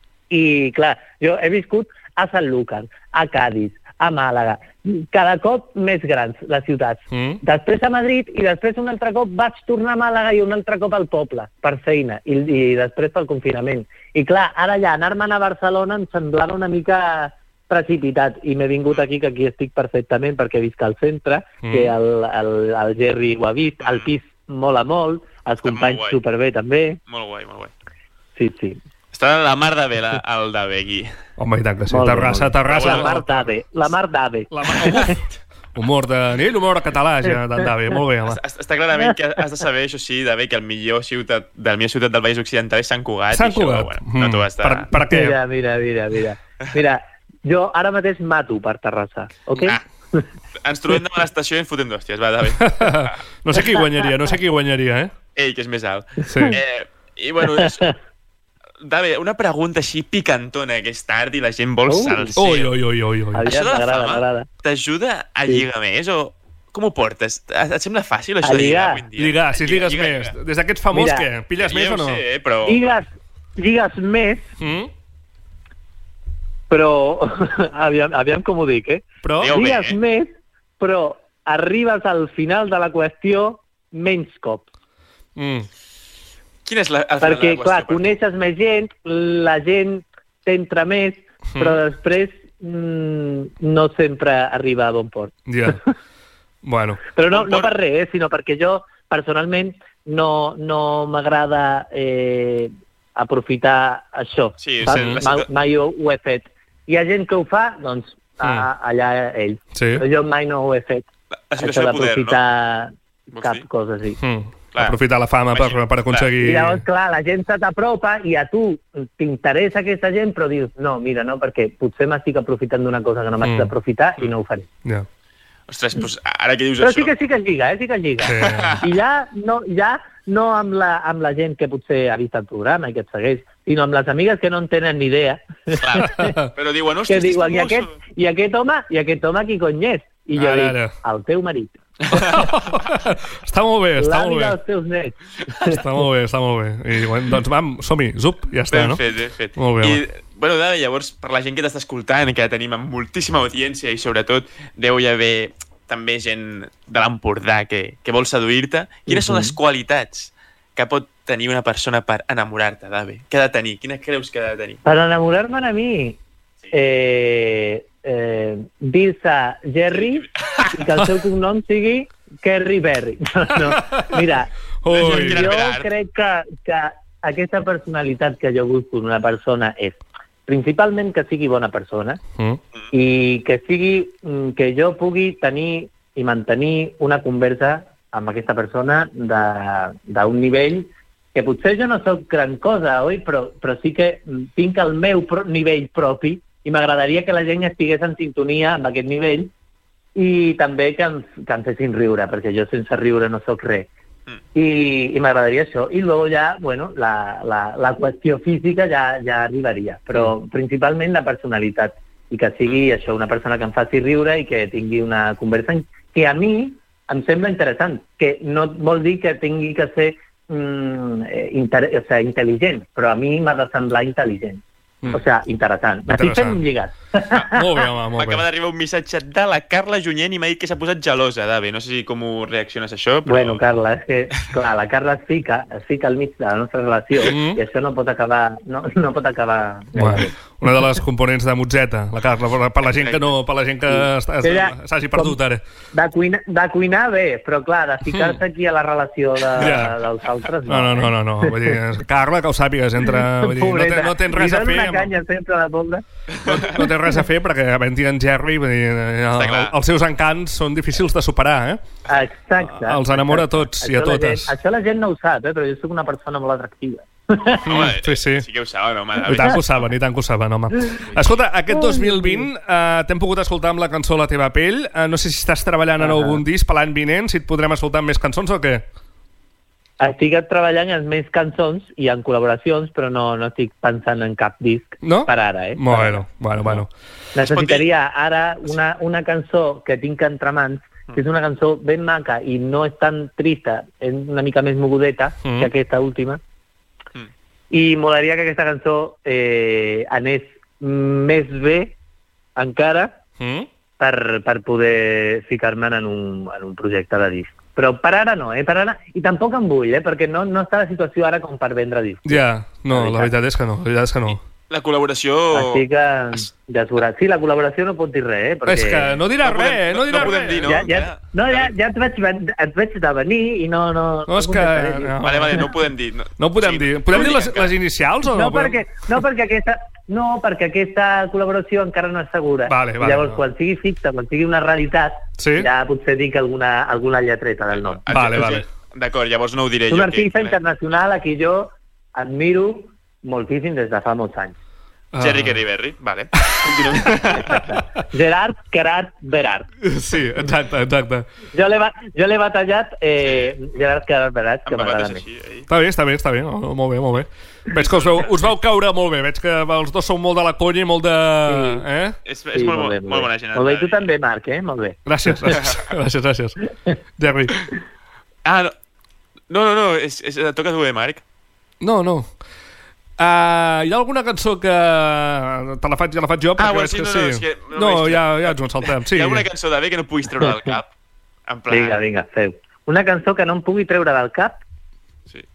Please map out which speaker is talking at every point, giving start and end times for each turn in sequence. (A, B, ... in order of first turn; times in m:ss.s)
0:00.3-0:27.0 A
0:07.1-0:07.4 B
0:21.6-0:21.9 B
0:23.8-0:24.1 C
0:25.6-0:26.2 C
0:27.1-0:27.7 C
0:28.4-0:28.8 A
0:29.1-0:31.1 C
0:31.4-0:33.5 B
0:31.9-0:35.2 A
0:32.7-0:33.2 C
0:34.5-0:35.2 B
0:35.7-0:38.4 B
0:38.3-0:44.8 C
0:43.3-0:45.4 B
0:44.9-0:50.2 A
0:49.6-0:49.8 C
0:50.6-0:53.1 C
0:52.6-0:55.1 B
0:55.4-0:57.9 C
0:56.3-0:56.6 B
0:57.5-0:57.9 A
0:58.8-1:02.7 C
1:01.9-1:02.4 A
1:02.4-1:03.4 B
1:03.3-1:04.5 A
1:03.4-1:10.3 C
1:08.4-1:09.0 A
1:09.2-1:12.2 B
1:10.9-1:11.2 A
1:11.6-1:12.8 C
1:12.6-1:14.5 A
1:14.6-1:14.9 B
1:16.7-1:24.7 A
1:19.2-1:19.6 B
1:19.4-1:20.0 C
1:25.4-1:25.7 B
1:26.6-1:28.1 C
1:27.2-1:35.8 A
1:31.5-1:31.8 B
1:35.5-1:35.8 B
1:36.6-1:37.0 B
1:37.1-1:51.1 A
1:37.3-1:37.7 C
1:44.6-1:45.5 C
1:44.8-1:45.2 B
1:49.7-1:50.0 B
1:51.5-1:52.4 C
1:51.6-1:54.2 A
1:53.3-1:53.6 C
1:54.2-1:56.8 B
1:55.5-1:56.3 C
1:56.4-2:04.7 A
2:03.4-2:03.7 B
2:05.7-2:07.1 C
2:06.8-2:16.3 A
2:08.2-2:08.8 B
2:08.4-2:08.8 C
2:15.8-2:17.9 C
2:16.0-2:16.5 B
2:17.1-2:22.4 A
2:20.4-2:20.9 B
2:22.1-2:24.6 B
2:24.0-2:25.8 A
2:25.6-2:29.0 B
2:28.7-2:44.8 C
2:29.5-2:30.0 B
2:39.1-2:39.6 A
2:44.8-2:46.2 A
2:46.7-3:02.2 A
2:49.9-2:50.8 C
2:53.7-2:54.1 B
2:54.8-2:55.5 B
2:54.9-2:55.9 C
3:02.9-3:19.5 A
3:20.1-3:23.9 A
3:24.5-3:47.6 A
3:46.1-3:46.6 B
3:47.5-3:48.4 B
3:48.2-3:53.6 C
3:53.2-4:00.3 A
3:57.2-3:57.6 B
4:00.0-4:05.6 B
4:02.9-4:03.3 C
4:03.9-4:05.4 A
4:05.9-4:11.8 A
4:08.0-4:08.4 B
4:09.6-4:10.0 B
4:10.6-4:15.1 B
4:13.1-4:16.9 A
4:16.4-4:16.7 C
4:16.5-4:21.8 B
4:19.3-4:19.7 C
4:22.1-4:27.8 A
4:22.6-4:24.5 B
4:27.6-4:28.4 B
4:27.6-4:29.6 C
4:29.2-4:38.8 B
4:31.7-4:32.5 A
4:36.0-4:36.4 A
4:40.0-4:46.2 A
4:45.0-4:46.9 B
4:47.3-4:56.4 A
4:47.4-4:47.9 C
4:55.4-4:55.7 B
4:57.7-5:01.9 A
5:02.6-5:03.2 A
5:03.4-5:03.7 B
5:04.0-5:13.3 A
5:12.2-5:14.4 B
5:14.3-5:15.8 C
5:15.5-5:19.2 A
5:18.6-5:20.8 B
5:19.4-5:21.7 C
5:20.2-5:25.6 A
5:24.3-5:25.7 B
5:25.2-5:27.7 C
5:26.4-5:28.8 B
5:28.3-5:38.0 A
5:32.7-5:33.4 B
5:35.4-5:35.7 B
5:37.7-5:40.6 C
5:38.1-5:38.6 B
5:39.9-5:44.6 A
5:45.1-5:45.6 B
5:45.2-5:47.6 C
5:47.0-5:47.4 B
5:47.4-5:49.7 A
5:49.8-5:51.2 B
5:51.5-5:55.2 A
5:53.2-5:53.5 C
5:54.7-5:55.7 C
5:55.7-6:02.2 B
5:57.8-5:58.5 C
6:01.5-6:01.8 A
6:02.2-6:04.0 C
6:02.5-6:05.6 A
6:05.0-6:06.6 B
6:07.2-6:07.6 B
6:08.4-6:08.7 C
6:09.5-6:11.2 C
6:11.8-6:12.3 B
6:13.2-6:19.5 B
6:16.6-6:20.9 C
6:21.5-6:22.0 C
6:21.7-6:24.6 A